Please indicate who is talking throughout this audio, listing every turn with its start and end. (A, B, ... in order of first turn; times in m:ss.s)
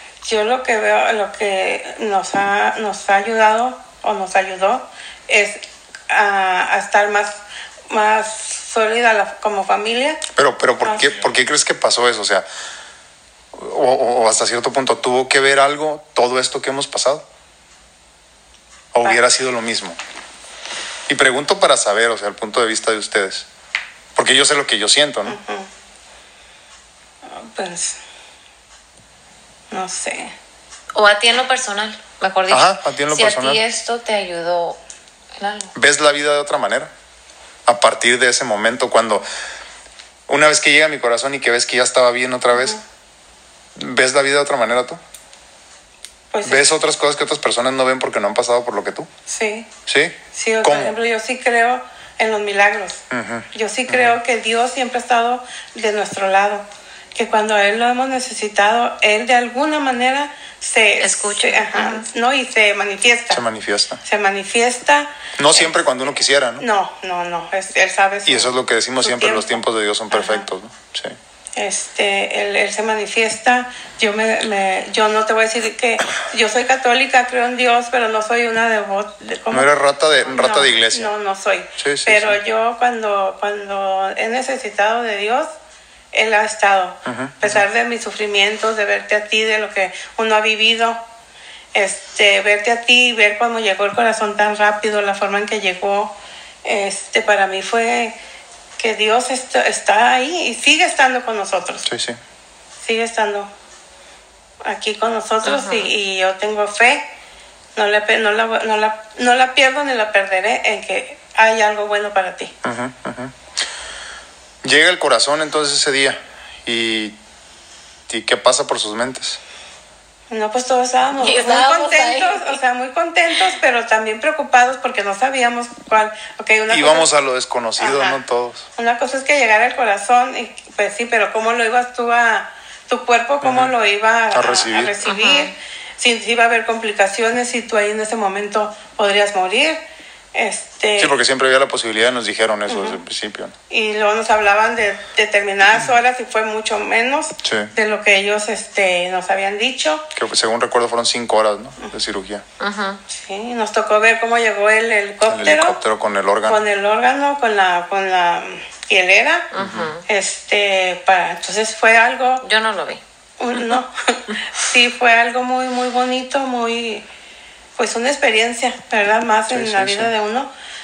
0:00.2-0:10.2 A
0:10.3-0:12.4 B
0:10.8-0:11.2 A
0:13.5-0:17.2 B
0:18.9-0:20.0 B
0:21.1-0:23.5 B
0:24.2-0:25.4 B
0:25.3-0:25.7 A
0:27.2-0:28.0 A
0:29.7-0:30.3 A
0:30.9-0:34.8 C
0:32.5-0:33.6 B
0:35.4-0:35.7 C
0:35.7-0:36.9 B
0:37.6-0:39.2 B
0:40.3-0:42.8 B
0:43.7-0:45.0 B
0:46.3-0:46.7 A
0:46.4-0:49.1 B
0:49.3-0:49.7 A
0:49.8-0:51.0 B
0:50.3-0:53.0 A
0:53.1-0:54.2 B
0:53.5-1:03.4 A
1:01.0-1:02.1 C
1:03.3-1:04.0 B
1:04.0-1:05.8 A
1:05.4-1:06.6 B
1:06.6-1:09.5 A
1:08.2-1:11.2 B
1:10.1-1:10.4 A
1:11.5-1:25.5 A
1:19.5-1:21.1 B
1:21.8-1:22.4 B
1:26.1-1:31.0 A
1:27.0-1:27.6 B
1:31.7-1:38.1 A
1:38.8-1:41.8 A
1:41.8-1:42.2 B
1:42.8-1:43.5 A
1:44.6-1:47.0 A
1:45.4-1:45.9 C
1:47.7-1:52.5 A
1:52.6-1:53.3 B
1:54.6-1:57.2 B
1:58.1-1:59.4 B
2:00.3-2:07.1 A
2:01.2-2:02.6 C
2:06.7-2:08.6 B
2:07.8-2:08.2 A
2:08.8-2:19.8 A
2:13.4-2:13.7 B
2:14.3-2:14.9 B
2:15.0-2:15.5 C
2:20.3-2:21.1 A
2:21.0-2:23.5 B
2:22.7-2:23.0 A
2:23.7-2:30.0 A
2:27.4-2:27.7 B
2:30.1-2:32.4 B
2:32.6-2:33.0 C
2:33.1-2:35.8 A
2:35.2-2:36.6 B
2:36.4-2:39.5 A
2:39.5-2:40.0 C
2:39.6-2:39.9 B
2:40.0-2:42.4 A
2:42.4-2:43.0 C
2:43.4-2:47.1 A
2:47.8-2:50.5 A
2:49.5-2:50.1 B